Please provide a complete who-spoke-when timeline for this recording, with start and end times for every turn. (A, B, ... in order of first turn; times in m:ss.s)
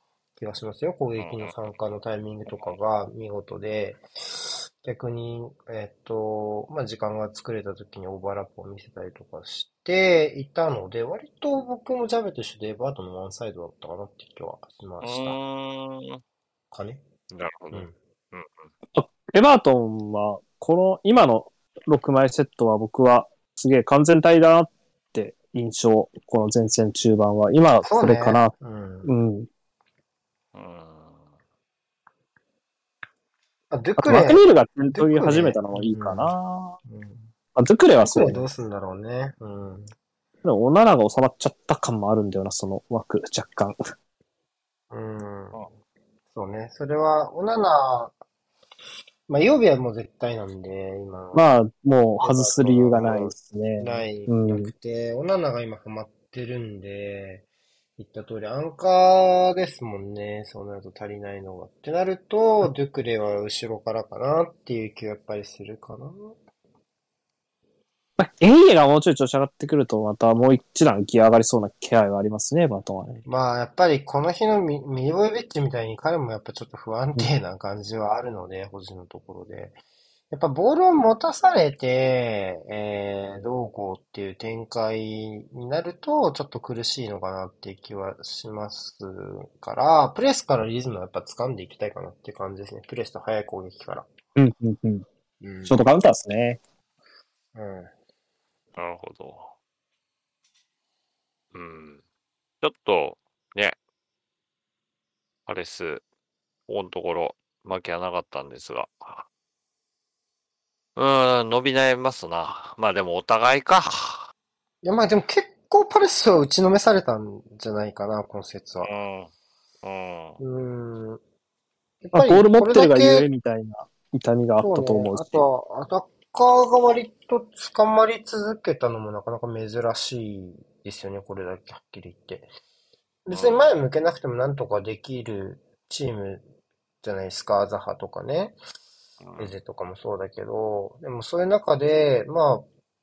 0:00.4-0:15.4 A
0:01.2-0:01.5 B
0:15.0-0:16.2 B
0:16.7-0:17.0 A
0:17.3-0:18.7 B
0:18.9-0:28.5 C
0:27.8-0:29.1 A
0:29.0-0:29.5 C
0:30.5-0:31.2 B
0:33.7-0:36.3 A
0:34.0-0:36.8 C
0:36.8-0:37.3 A
0:37.5-0:38.4 C
0:38.0-0:39.9 A
0:40.4-0:43.8 C
0:44.9-0:45.7 A
0:46.3-0:48.1 A
0:49.3-0:51.5 A
0:51.3-0:54.7 C
0:52.2-0:57.4 A
0:58.0-1:06.3 A
1:08.2-1:13.2 C
1:13.2-1:19.8 A
1:20.3-1:34.1 A
1:34.3-1:35.0 C
1:35.4-1:35.8 A
1:35.6-1:36.6 C
1:37.5-1:37.9 A
1:38.8-1:39.5 B
1:41.5-1:42.0 B
1:42.6-1:43.8 B
1:45.5-1:46.0 B
1:46.7-1:49.2 B
1:51.0-1:54.3 B
1:54.8-1:58.9 A
1:58.8-1:59.3 B
1:59.8-2:00.4 B
2:00.4-2:01.2 A
2:02.0-2:03.3 A
2:02.1-2:05.4 C
2:04.6-2:12.5 A
2:13.2-2:16.4 A
2:13.3-2:13.7 B
2:17.0-2:18.6 A
2:19.2-2:19.6 B
2:19.4-2:22.6 A